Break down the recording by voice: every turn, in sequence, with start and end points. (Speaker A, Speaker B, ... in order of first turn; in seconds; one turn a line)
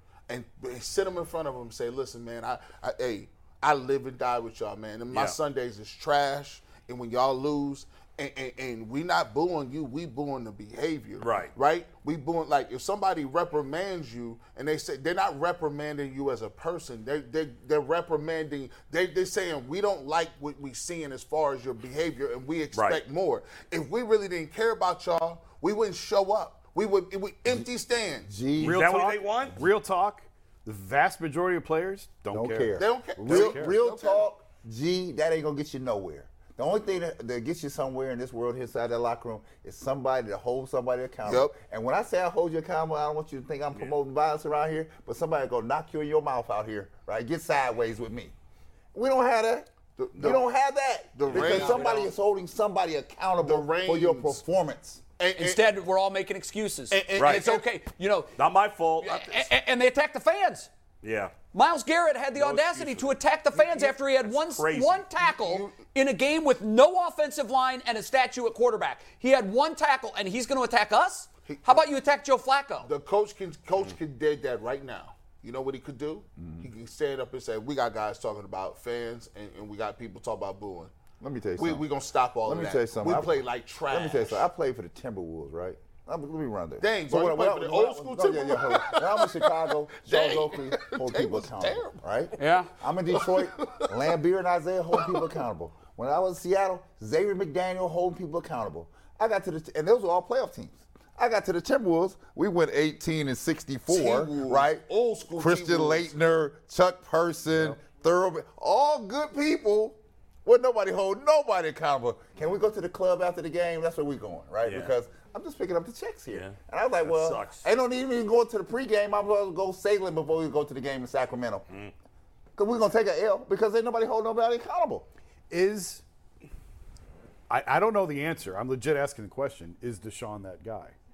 Speaker A: 0.3-28.3
Speaker B: 5.1-5.4
Speaker B: 11.2-11.5
Speaker B: 22.7-23.0
Speaker C: 28.3-28.8
Speaker D: 28.6-33.7
Speaker B: 28.6-29.6
Speaker C: 32.3-48.3
Speaker A: 32.8-34.2
Speaker A: 41.2-41.5
Speaker C: 48.9-55.0
Speaker A: 50.0-50.4
Speaker A: 51.1-52.1
Speaker E: 51.3-52.1
Speaker A: 53.4-54.4
Speaker A: 55.2-55.7
Speaker E: 55.4-58.3
Speaker A: 56.9-57.6
Speaker B: 57.1-57.5
Speaker B: 58.4-59.5
Speaker E: 59.0-60.7
Speaker B: 61.0-61.3
Speaker E: 61.5-72.9
Speaker B: 62.4-65.0
Speaker A: 65.2-65.8
Speaker A: 71.5-71.8
Speaker A: 72.8-80.9
Speaker C: 76.4-76.7
Speaker C: 81.2-81.8
Speaker A: 81.6-84.4
Speaker C: 82.4-121.6
Speaker A: 86.8-92.0
Speaker E: 92.4-92.7
Speaker A: 93.2-93.9
Speaker A: 95.0-95.2
Speaker A: 103.9-106.1
Speaker B: 114.7-114.9
Speaker B: 116.3-117.6
Speaker C: 122.5-125.1
Speaker D: 125.5-126.0
Speaker D: 127.5-130.9